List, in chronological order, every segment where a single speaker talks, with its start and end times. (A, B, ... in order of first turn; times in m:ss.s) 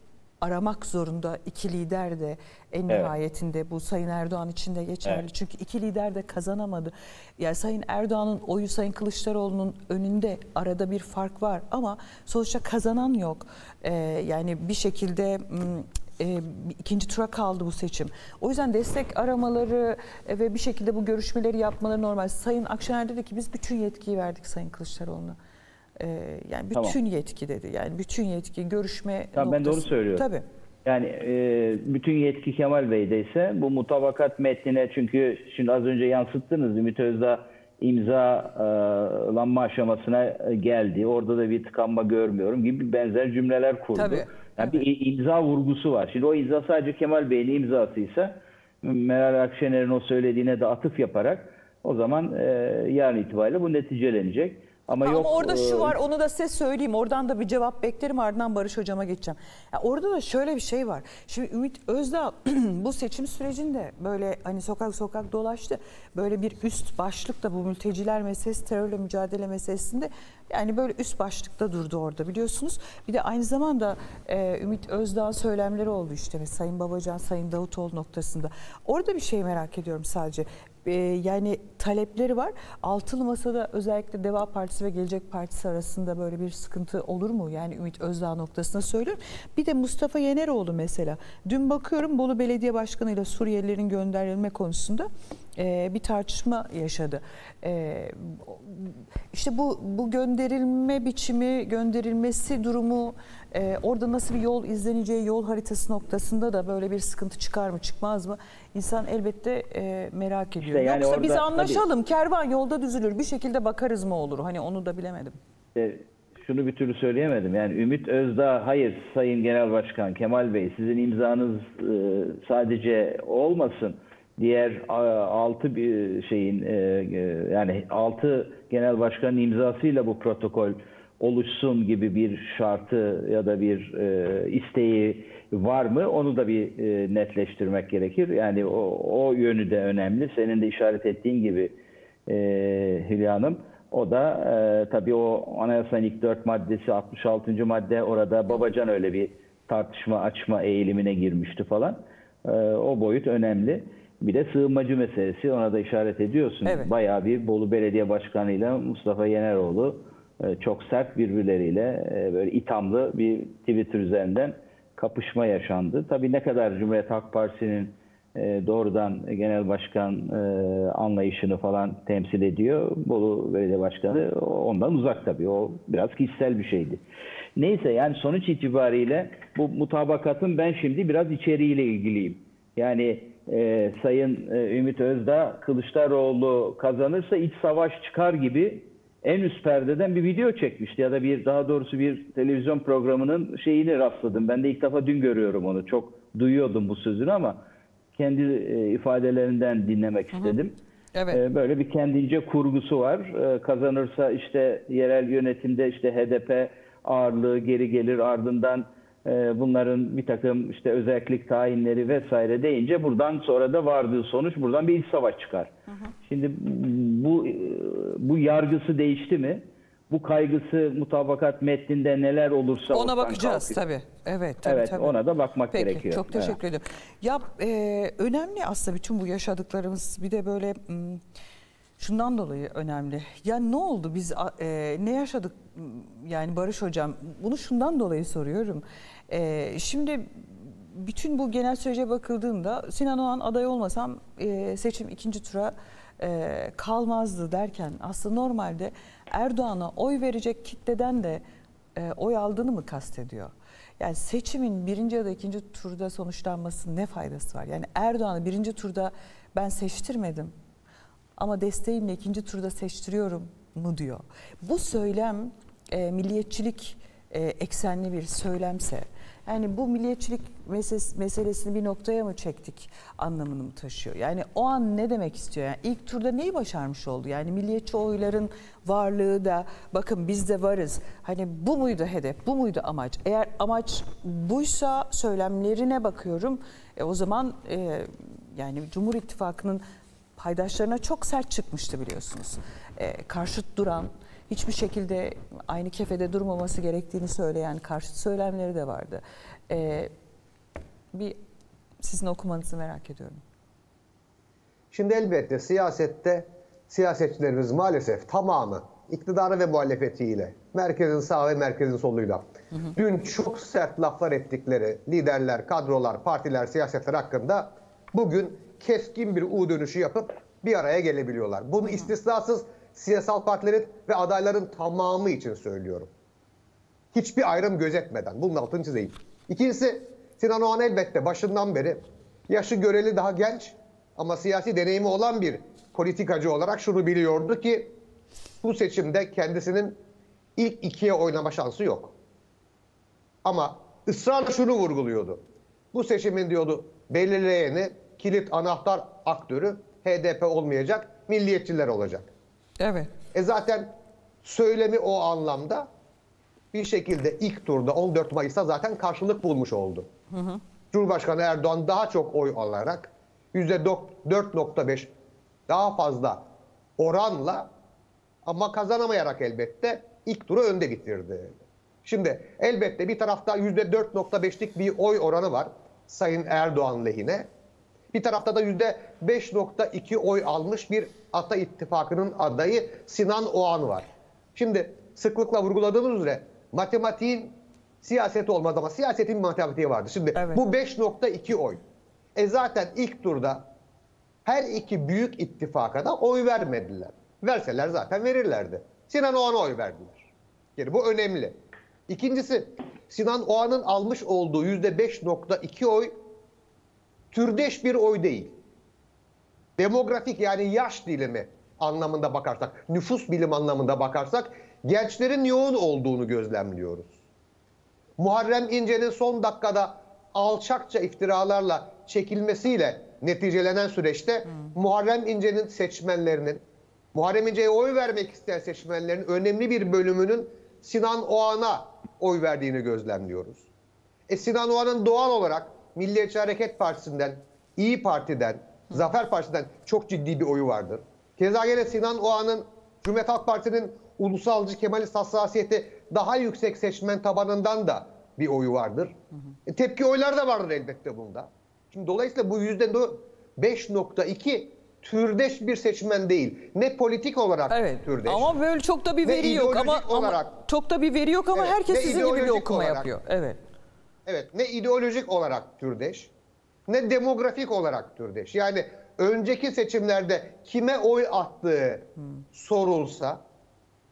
0:00.4-0:25.4 A
0:26.0-0:30.4 A
0:29.4-0:30.2 B
0:30.8-0:56.0 B
0:43.9-0:44.8 A
0:55.0-1:55.4 A
1:50.6-1:51.8 B
1:55.8-2:21.8 B
2:22.2-2:57.0 B
2:36.6-2:36.9 A
2:57.6-3:17.6 B
3:18.2-3:20.7 B
3:21.1-3:21.4 A
3:21.3-3:35.7 B
3:36.2-3:43.8 B
3:42.9-3:45.1 A
3:44.6-3:46.6 B
3:45.7-3:51.2 A
3:52.0-4:11.4 A
4:11.9-4:20.5 A
4:21.4-4:49.8 A
4:50.4-5:00.1 A
5:02.0-5:03.4 A
5:04.9-5:26.1 C
5:27.1-5:37.9 C
5:38.6-5:40.0 C
5:40.6-5:42.1 C
5:43.4-5:45.4 C
5:45.9-5:52.3 C
5:52.8-5:53.1 A
5:53.3-5:55.9 C
5:56.7-6:00.1 C
6:00.3-6:00.6 A
6:00.9-6:05.1 C
6:05.7-6:06.4 C
6:07.0-6:07.7 C
6:08.4-6:17.5 C
6:18.1-6:31.8 C
6:30.3-6:30.6 A
6:32.4-6:33.7 C
6:34.4-6:41.6 C
6:42.1-6:46.2 C
6:47.3-6:48.5 C
6:49.8-6:57.1 C
6:58.2-7:13.6 C
7:14.3-7:29.1 C
7:29.7-7:38.5 C
7:37.7-7:43.6 A
7:39.2-7:40.5 C
7:41.5-7:43.1 C
7:44.2-7:46.3 C
7:46.9-7:53.4 C